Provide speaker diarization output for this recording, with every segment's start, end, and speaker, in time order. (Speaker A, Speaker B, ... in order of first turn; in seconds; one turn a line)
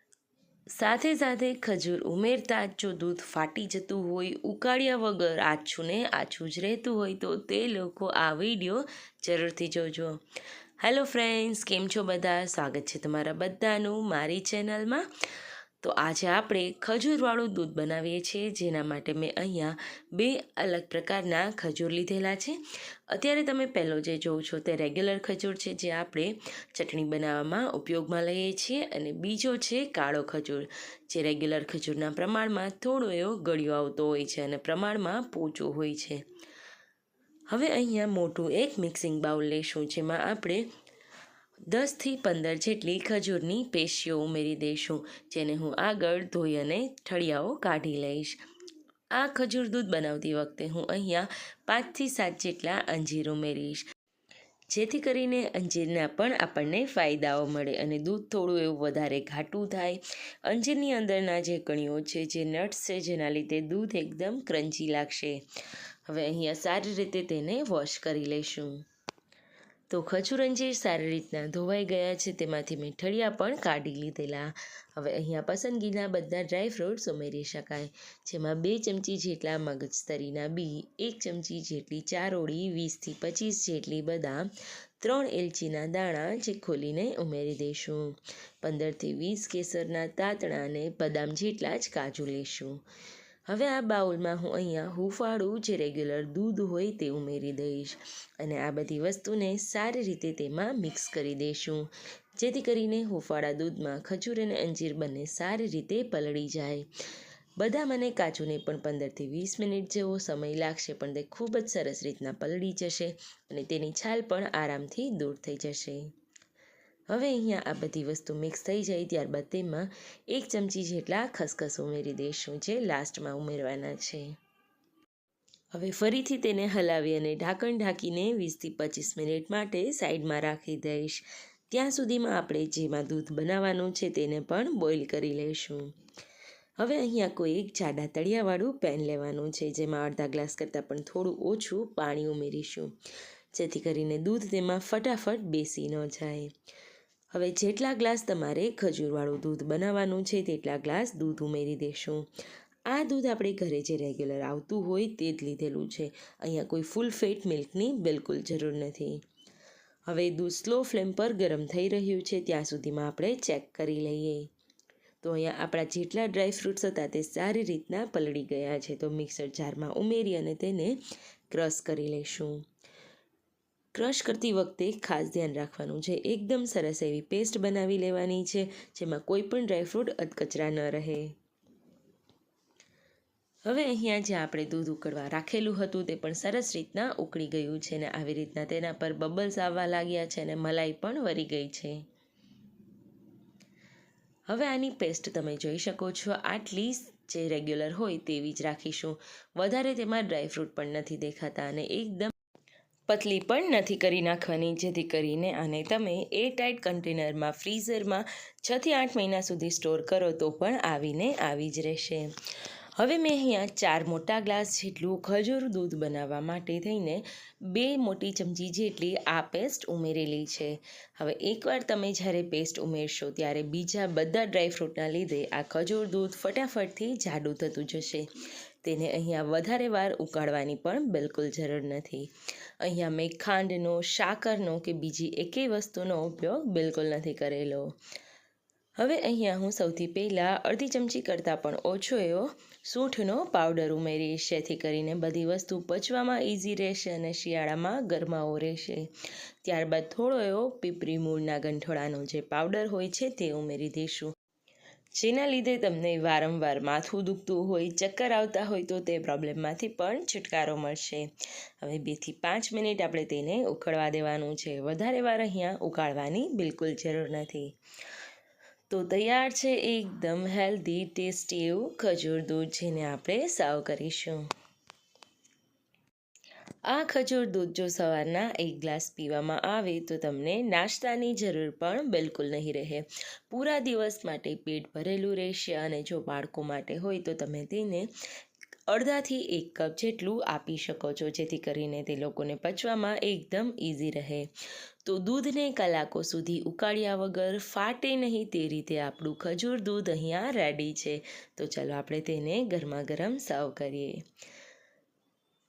Speaker A: 0.7-10.2
Speaker A: 10.8-15.1
Speaker A: 15.8-22.6
Speaker A: 23.1-36.2
Speaker A: 37.5-40.7
Speaker A: 41.7-48.4
Speaker A: 49.1-53.9
Speaker A: 54.7-65.4
Speaker A: 66.1-68.8
Speaker A: 69.9-92.8
Speaker A: 93.5-106.9
Speaker A: 107.6-116.1
Speaker A: 117.1-124.3
Speaker A: 125.7-135.9
Speaker A: 136.8-142.9
Speaker A: 143.5-146.5
Speaker A: 147.3-152.3
Speaker A: 152.9-159.2
Speaker A: 160.1-164.5
Speaker A: 165.2-172.6
Speaker A: 173.9-181.3
Speaker A: 183.6-192.0
Speaker A: 194.5-202.3
Speaker A: 203.1-212.3
Speaker A: 212.9-228.3
Speaker A: 228.8-237.9
Speaker A: 239.0-254.3
Speaker A: 255.1-267.8
Speaker A: 268.9-274.5
Speaker A: 276.9-288.1
Speaker A: 288.9-294.5
Speaker A: 295.0-304.2